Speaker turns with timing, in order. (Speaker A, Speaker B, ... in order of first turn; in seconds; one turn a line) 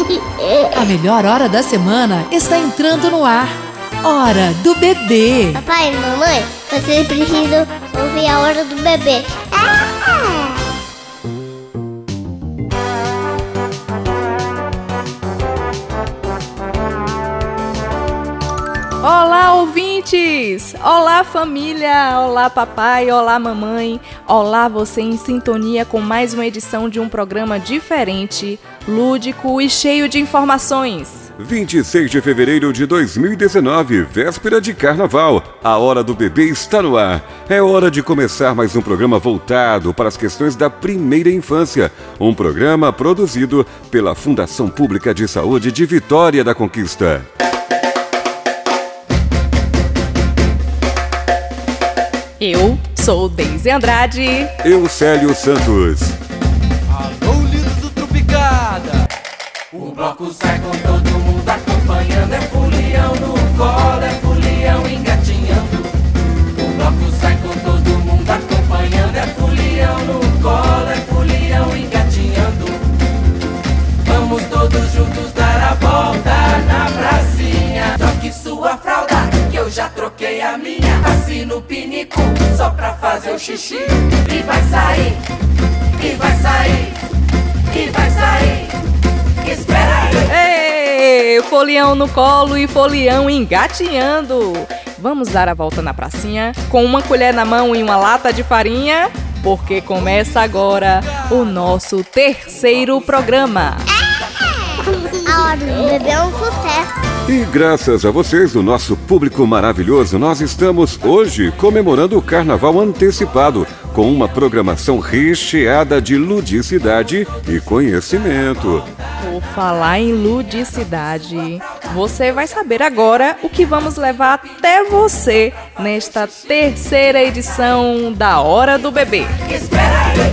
Speaker A: 0.8-5.6
Speaker B: 5.5-10.1
Speaker C: 19.0-31.3
Speaker D: 31.4-47.3
Speaker C: 52.4-54.5
Speaker D: 54.6-56.2
Speaker E: 57.5-58.6
Speaker E: 59.7-65.8
Speaker E: 66.7-72.7
Speaker E: 74.1-85.2
Speaker E: 86.0-86.9
Speaker E: 87.7-88.7
Speaker E: 89.5-90.2
Speaker C: 90.3-103.8
Speaker B: 105.0-106.9
Speaker D: 107.3-118.9
Speaker C: 119.2-129.3
Speaker E: 129.7-130.2